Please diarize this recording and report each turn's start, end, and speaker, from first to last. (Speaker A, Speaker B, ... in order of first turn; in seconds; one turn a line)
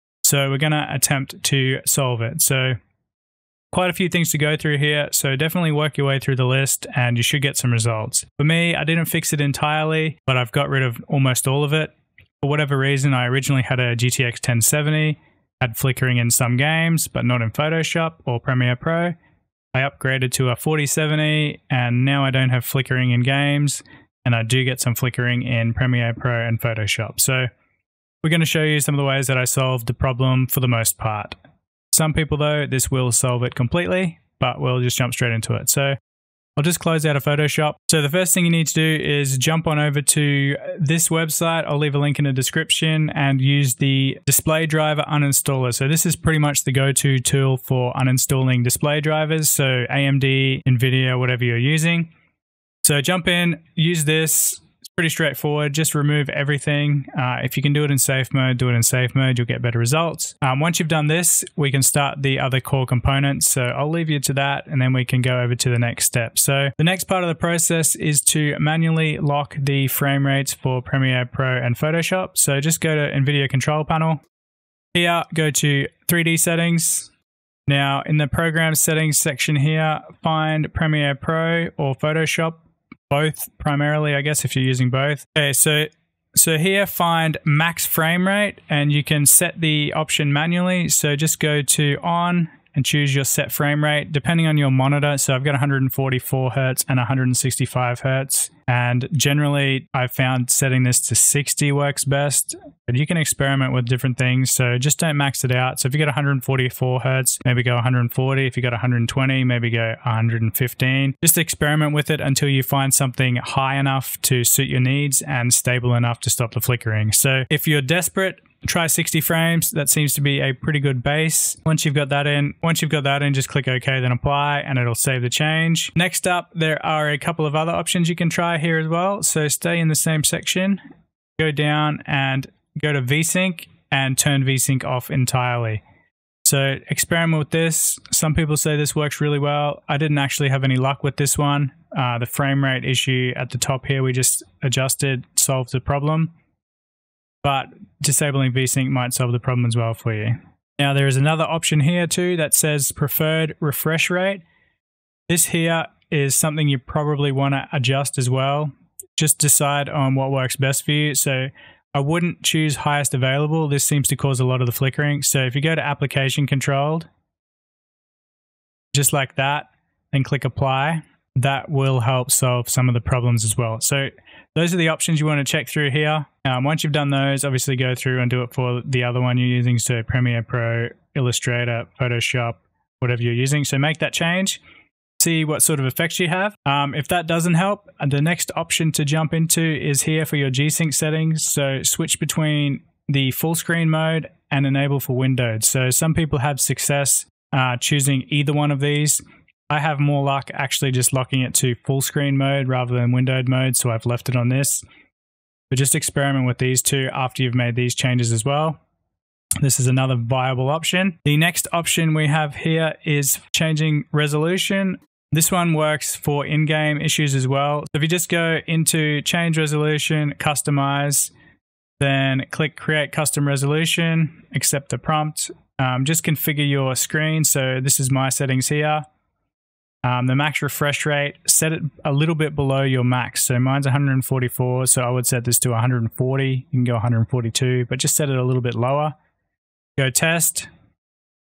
Speaker A: 0.2-2.8
Speaker A: 3.7-19.1
Speaker A: 19.7-27.5
Speaker A: 28.2-31.4
Speaker A: 31.9-36.0
Speaker A: 36.5-52.1
Speaker A: 52.8-74.2
Speaker A: 74.9-77.1
Speaker A: 77.7-130.8
Speaker A: 131.4-135.8
Speaker A: 136.4-146.3
Speaker A: 147.4-154.4
Speaker A: 155.3-167.1
Speaker A: 168.9-184.6
Speaker A: 185.2-204.8
Speaker A: 205.7-208.8
Speaker A: 209.6-221.3
Speaker A: 222.0-229.0
Speaker A: 230.0-239.2
Speaker A: 240.0-240.7